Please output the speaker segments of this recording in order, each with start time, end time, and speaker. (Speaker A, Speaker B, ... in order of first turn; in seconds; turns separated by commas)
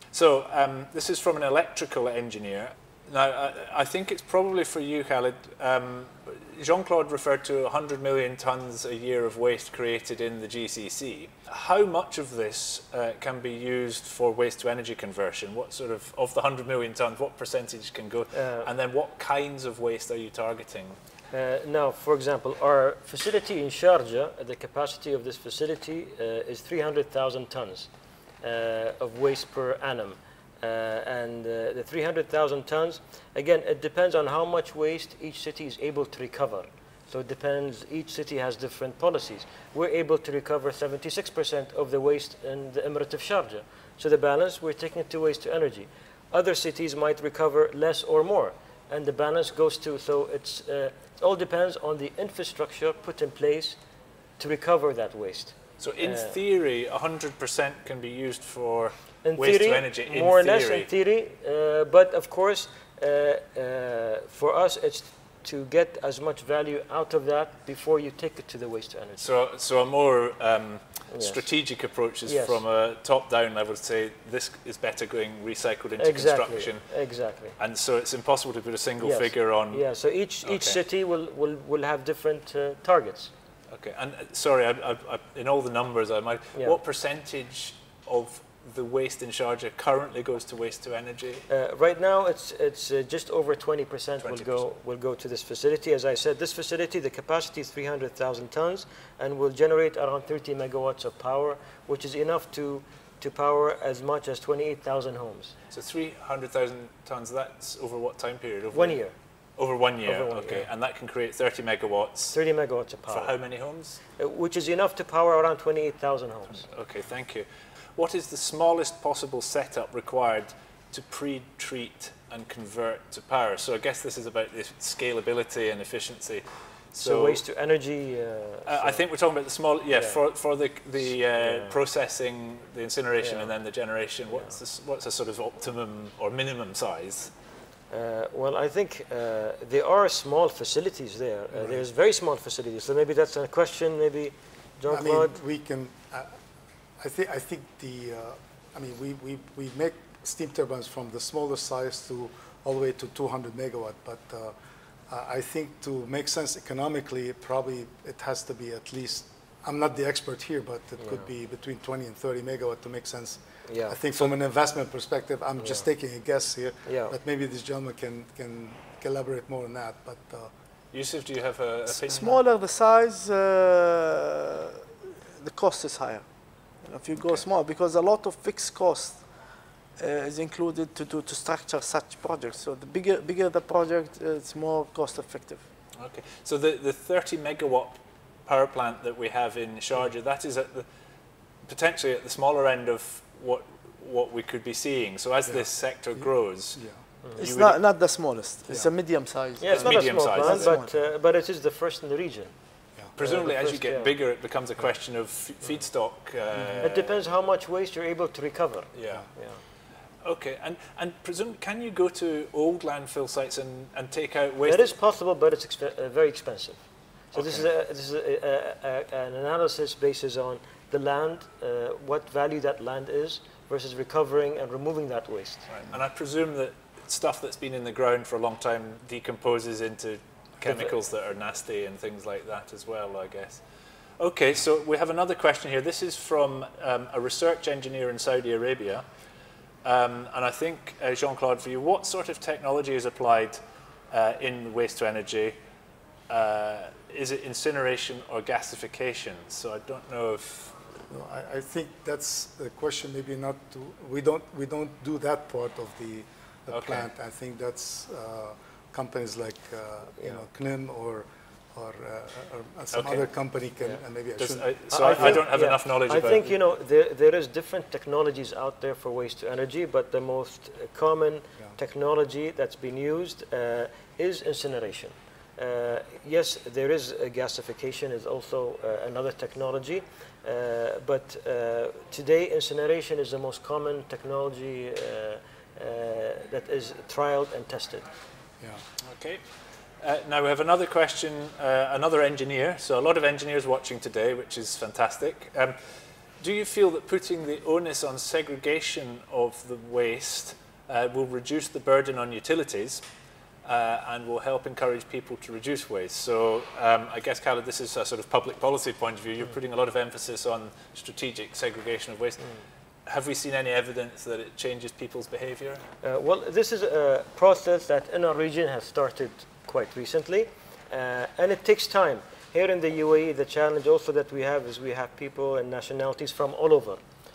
Speaker A: 0.1-21.0, Speaker B: 18.3-18.7, Speaker B: 21.3-27.9, Speaker B: 28.4-53.8, Speaker B: 54.4-56.3, Speaker A: 55.8-60.9, Speaker B: 59.2-69.3, Speaker A: 69.2-76.8, Speaker B: 71.1-71.4, Speaker B: 72.3-72.6, Speaker B: 76.0-77.5, Speaker A: 77.6-79.8, Speaker B: 79.0-83.3, Speaker A: 80.4-80.8, Speaker A: 83.7-91.4, Speaker B: 91.5-105.5, Speaker A: 94.2-94.6, Speaker A: 105.7-109.0, Speaker B: 108.7-109.1, Speaker A: 109.6-112.4, Speaker B: 110.0-110.7, Speaker B: 112.3-113.3, Speaker A: 113.1-114.0, Speaker B: 114.2-116.7, Speaker A: 116.6-127.4, Speaker B: 127.0-129.0, Speaker A: 128.7-137.3, Speaker B: 129.9-130.2, Speaker B: 131.4-131.8, Speaker B: 133.2-133.5, Speaker B: 137.9-145.4, Speaker C: 144.9-146.3, Speaker C: 147.0-154.5, Speaker C: 155.1-170.5, Speaker B: 163.7-164.3, Speaker B: 166.8-167.1, Speaker A: 170.9-172.3, Speaker D: 172.0-174.8, Speaker D: 175.4-176.2, Speaker D: 176.8-179.2, Speaker D: 180.0-185.6, Speaker A: 186.0-190.8, Speaker A: 191.7-196.8, Speaker C: 195.4-197.0, Speaker A: 197.3-197.8, Speaker D: 197.4-200.9, Speaker B: 199.6-202.5, Speaker A: 199.7-200.8, Speaker A: 203.2-207.1, Speaker B: 203.2-204.1, Speaker C: 206.5-206.8, Speaker B: 206.8-209.6, Speaker A: 208.9-209.2, Speaker A: 210.2-214.9, Speaker B: 214.6-216.8, Speaker B: 217.3-225.6, Speaker A: 217.4-217.6, Speaker A: 225.7-233.6, Speaker A: 234.2-239.0, Speaker A: 239.8-243.6, Speaker A: 244.1-245.5, Speaker A: 246.3-250.7, Speaker C: 251.1-265.4, Speaker A: 256.7-257.1, Speaker A: 262.9-263.2, Speaker A: 264.4-266.5, Speaker B: 264.9-288.0, Speaker A: 289.1-289.4, Speaker A: 290.0-295.8, Speaker A: 296.4-303.0, Speaker A: 303.6-312.5, Speaker A: 313.1-315.8, Speaker B: 316.0-327.0